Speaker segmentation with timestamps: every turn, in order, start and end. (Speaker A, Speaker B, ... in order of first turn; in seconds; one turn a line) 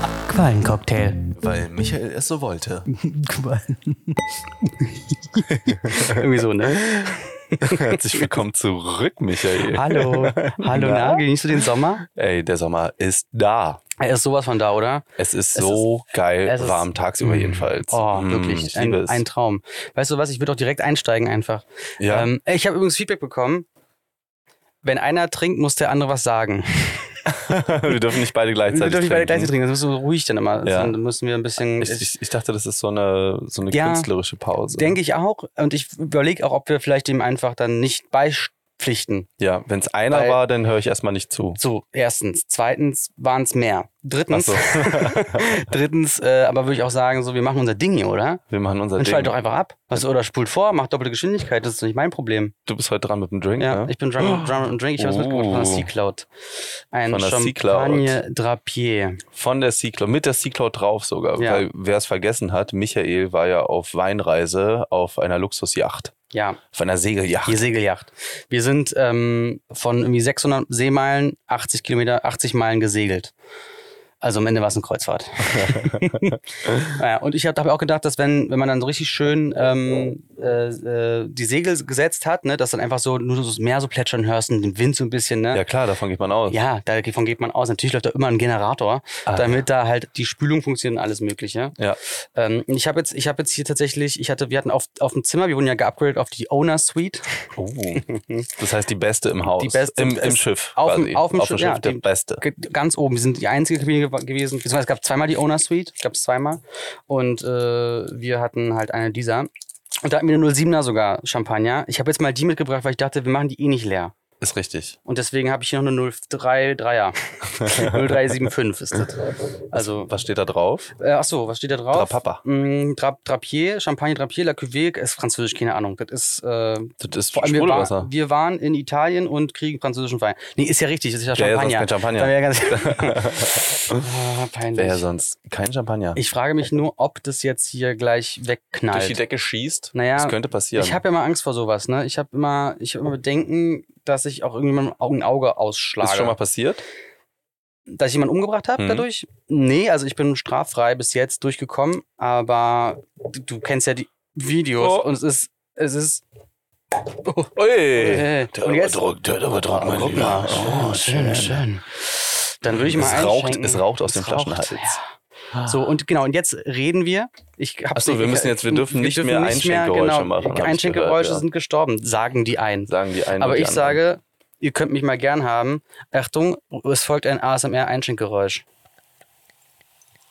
Speaker A: 0.3-1.3
Speaker B: 1.4-2.9
Speaker A: 2.9-8.3
Speaker B: 5.5-13.8
Speaker A: 9.6-12.0
Speaker A: 14.0-15.8
Speaker B: 15.2-19.2
Speaker A: 16.4-23.7
Speaker B: 22.0-22.3
Speaker A: 24.8-27.2
Speaker B: 27.2-29.5
Speaker A: 28.7-32.1
Speaker B: 30.6-30.9
Speaker B: 31.7-35.0
Speaker A: 33.7-34.1
Speaker A: 34.7-39.3
Speaker B: 39.4-41.6
Speaker A: 40.1-40.4
Speaker A: 41.6-48.4
Speaker B: 44.3-45.5
Speaker B: 48.5-49.4
Speaker A: 49.0-52.5
Speaker B: 52.7-55.9
Speaker A: 53.6-56.3
Speaker A: 56.9-59.2
Speaker B: 57.1-58.2
Speaker B: 59.3-66.2
Speaker A: 61.4-61.6
Speaker A: 66.3-66.6
Speaker B: 66.7-67.6
Speaker A: 67.5-73.3
Speaker A: 74.2-85.6
Speaker B: 75.5-76.9
Speaker B: 85.5-86.6
Speaker A: 86.5-97.5
Speaker B: 89.3-89.6
Speaker B: 97.6-102.4
Speaker A: 98.1-98.5
Speaker A: 99.6-109.5
Speaker A: 110.0-114.1
Speaker B: 114.4-115.0
Speaker A: 115.0-120.1
Speaker B: 117.6-117.9
Speaker B: 119.8-120.9
Speaker A: 121.0-135.0
Speaker B: 121.9-122.4
Speaker B: 127.0-128.1
Speaker B: 131.3-134.0
Speaker B: 134.8-136.2
Speaker A: 136.2-139.2
Speaker B: 138.9-141.0
Speaker A: 139.9-146.3
Speaker B: 146.0-146.8
Speaker A: 147.9-156.2
Speaker B: 148.8-149.1
Speaker B: 154.8-155.1
Speaker A: 157.1-165.1
Speaker B: 157.6-161.7
Speaker B: 162.7-165.0
Speaker B: 165.5-165.9
Speaker A: 165.6-178.6
Speaker B: 167.9-171.4
Speaker B: 172.8-174.0